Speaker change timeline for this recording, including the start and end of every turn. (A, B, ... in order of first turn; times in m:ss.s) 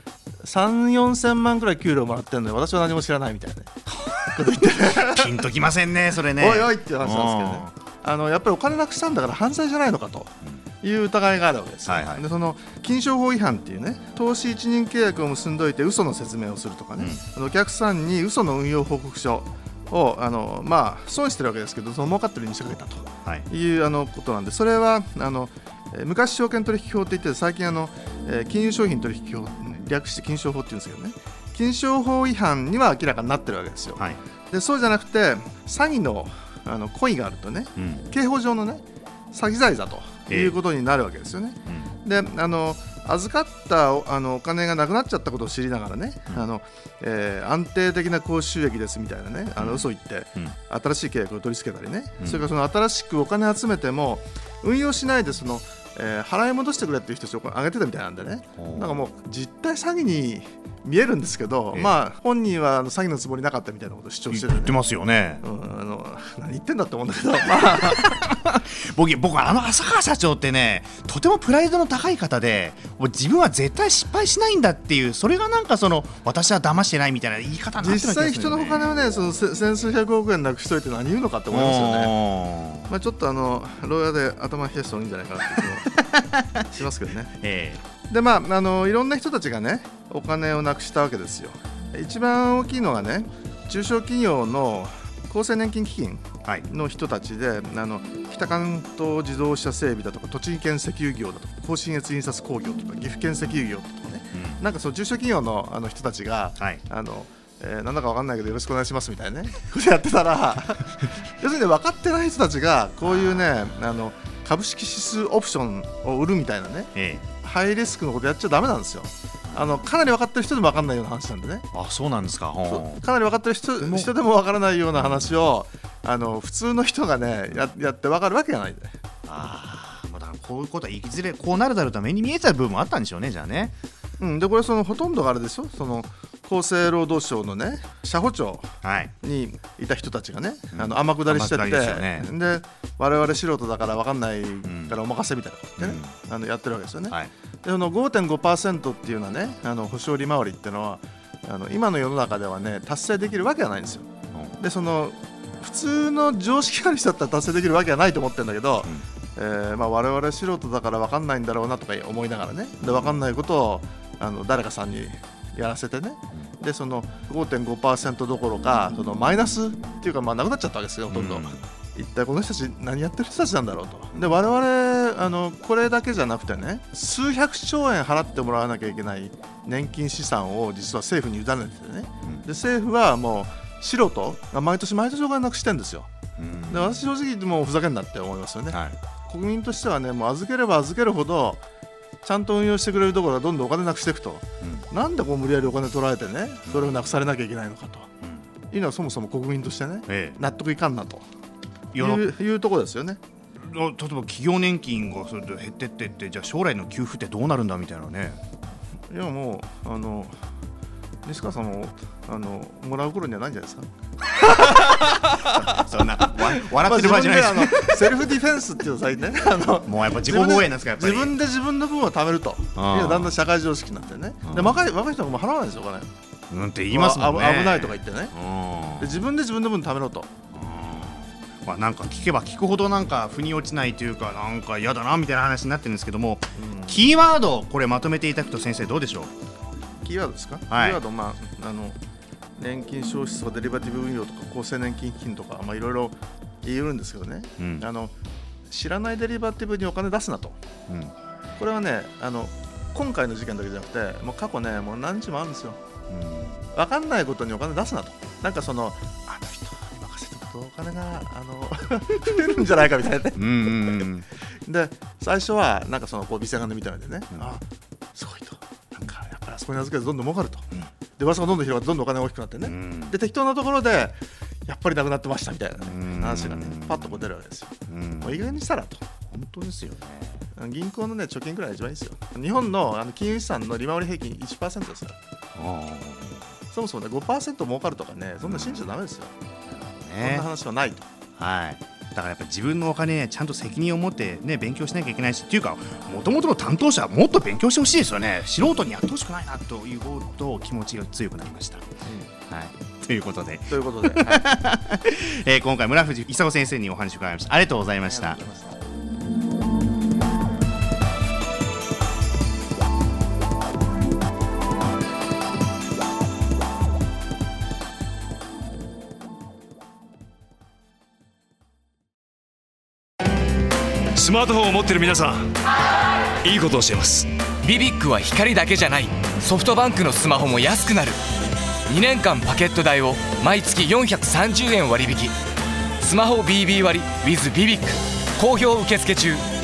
0:00.4-0:05.5 A
0:05.0-0:07.7 B
0:06.4-1:04.8 A
0:11.9-0:12.2 B
0:37.8-0:38.1 B
0:40.3-0:40.6 B
0:49.6-0:49.9 B
0:58.6-0:58.9 B
1:04.3-1:05.4 B
1:05.4-1:08.2 A
1:07.6-1:18.9 B
1:17.8-1:22.2 A
1:21.5-1:22.9 B
1:22.9-1:26.0 A
1:26.0-1:26.6 B
1:26.6-1:27.4 A
1:27.4-1:27.8 B
1:28.1-2:01.7 A
1:44.3-1:44.6 B
1:53.1-1:53.4 B
1:57.0-1:57.2 B
2:01.7-2:03.0 B
2:02.7-2:09.0 A
2:03.8-2:04.1 B
2:09.3-2:13.7 B
2:14.2-3:06.1 A
2:18.8-2:19.1 B
2:20.7-2:22.3 B
2:24.6-2:25.0 B
2:25.8-2:26.2 B
2:34.3-2:34.6 B
2:42.8-2:43.2 B
2:51.1-2:51.7 B
3:06.4-3:07.0 B
3:06.7-3:11.6 A
3:08.7-3:09.0 B
3:12.2-3:18.1 A
3:18.7-3:21.2 A
3:20.1-3:20.4 B
3:21.9-3:22.3 B
3:22.0-3:23.2 A
3:23.6-3:28.4 B
3:29.1-3:30.4 A
3:31.2-3:33.9 A
3:34.4-3:35.6 A
3:35.4-3:38.2 B
3:36.2-3:46.1 A
3:39.9-3:41.4 B
3:42.8-3:43.4 B
3:44.5-3:44.8 B
3:46.5-3:49.2 B
3:46.9-3:48.3 A
3:49.0-3:50.3 A
3:50.5-3:59.3 B
3:56.6-3:57.0 A
4:00.0-4:02.0 A
4:00.7-4:01.0 B
4:02.6-4:08.1 A
4:07.6-4:07.8 B
4:08.7-4:10.6 A
4:10.9-4:11.1 B
4:11.6-4:15.8 A
4:16.1-4:16.6 B
4:16.7-4:24.1 A
4:23.4-4:24.3 B
4:24.7-4:27.6 A
4:28.2-4:30.7 A
4:31.2-4:39.0 A
4:32.7-4:33.1 B
4:35.8-4:37.2 B
4:37.9-4:38.6 B
4:39.3-4:40.4 B
4:40.6-4:45.2 A
4:45.6-4:46.4 B
4:46.7-4:49.3 A
4:48.4-4:48.9 B
4:49.7-4:50.5 B
4:50.2-4:51.1 A
4:51.4-5:01.9 B
5:02.0-5:02.3 A
5:02.5-5:08.4 B
5:03.7-5:04.6 A
5:08.0-5:08.7 A
5:24.2-5:25.6 C
5:26.4-5:27.3 C
5:27.6-5:31.2 D
5:31.9-5:35.4 D
5:36.0-5:39.4 D